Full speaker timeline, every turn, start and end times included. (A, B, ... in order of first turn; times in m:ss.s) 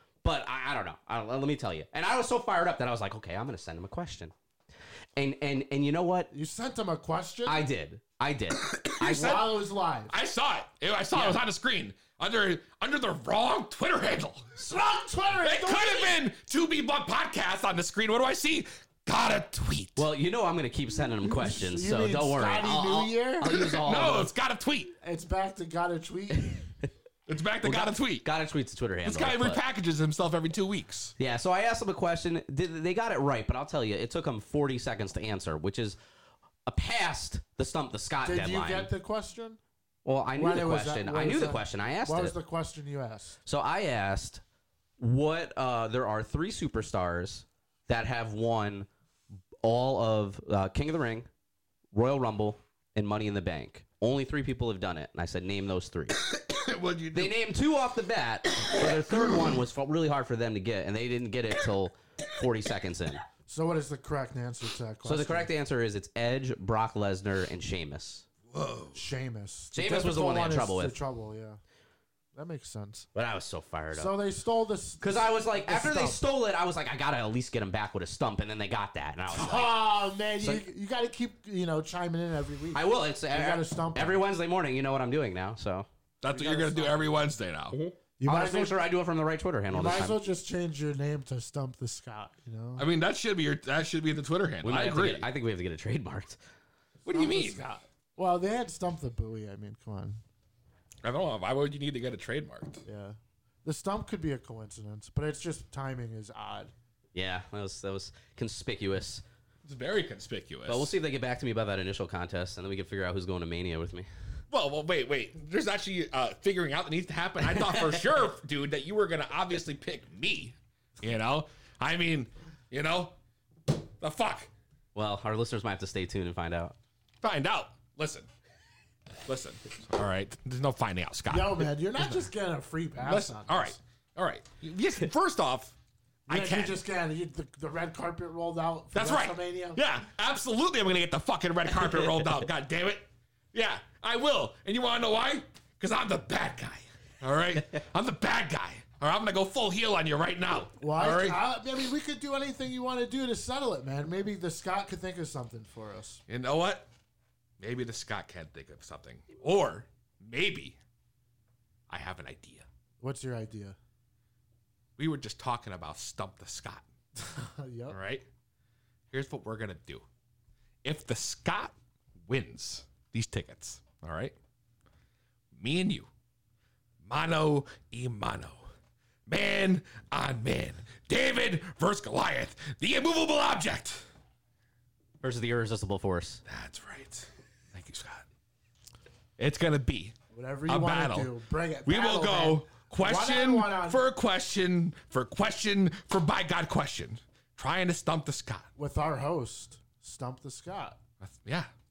0:00.2-0:04.3 A
0:05.2-0:06.3 A
0:06.3-0:07.7 B
0:07.4-0:09.4 A
0:08.8-0:14.5 C
0:09.0-0:10.1 B
0:11.1-0:11.4 A
0:14.6-0:16.2 B
0:15.4-0:20.0 C
0:20.0-0:24.3 A
0:21.4-0:23.8 B
0:23.6-0:24.9 C
0:25.0-0:26.6 B
0:27.3-0:28.2 C
0:27.6-0:29.6 A
0:29.0-0:31.1 C
0:31.2-0:36.0 A
0:36.6-0:38.9 A
0:38.2-0:39.6 B
0:40.0-0:42.4 A
0:40.4-0:43.4 B
0:43.4-0:44.4 A
0:45.0-0:48.9 A
0:49.6-0:51.3 A
0:51.9-0:56.2 A
0:56.3-0:57.4 C
0:57.1-1:03.2 A
1:03.5-1:05.5 B
1:05.0-1:08.2 A
1:08.5-1:08.9 C
1:08.9-1:11.6 B
1:09.7-1:11.0 A
1:12.3-1:13.1 B
1:13.1-1:14.1 A
1:13.9-1:16.2 B
1:15.0-1:19.8 A
1:19.3-1:24.2 B
1:22.7-1:25.9 A
1:26.2-1:27.8 C
1:26.3-1:27.2 B
1:27.7-1:30.2 A
1:28.2-1:28.8 B
1:29.7-1:32.9 B
1:32.8-1:35.3 C
1:34.6-1:36.4 A
1:37.0-1:37.6 C
1:37.1-1:40.2 B
1:41.0-1:42.8 C
1:42.8-1:46.7 B
1:47.1-1:49.2 A
1:49.6-1:50.9 C
1:50.7-1:54.1 A
1:54.5-2:03.1 C
1:57.4-1:58.0 A
2:04.0-2:04.5 C
2:04.9-2:06.8 A
2:07.2-2:08.3 C
2:09.2-2:12.3 C
2:11.3-2:13.8 B
2:13.0-2:15.7 C
2:16.3-2:19.8 B
2:16.3-2:16.8 C
2:18.9-2:31.4 C
2:21.8-2:22.1 A
2:30.8-2:36.2 B
2:36.3-2:36.9 C
2:37.6-2:40.8 C
2:41.9-2:42.7 C
2:43.0-2:43.8 B
2:45.0-2:46.8 C
2:47.2-2:48.0 B
2:47.9-2:48.2 C
2:49.1-2:50.0 C
2:50.8-2:51.7 C
2:52.3-2:54.3 C
2:55.5-2:56.1 C
2:57.0-2:58.6 C
2:59.3-3:04.0 C
3:05.2-3:06.4 A
3:06.5-3:08.2 C
3:09.4-3:10.1 C
3:10.3-3:14.0 B
3:10.7-3:11.3 C
3:11.8-3:18.7 C
3:18.8-3:21.0 B
3:21.2-3:21.7 C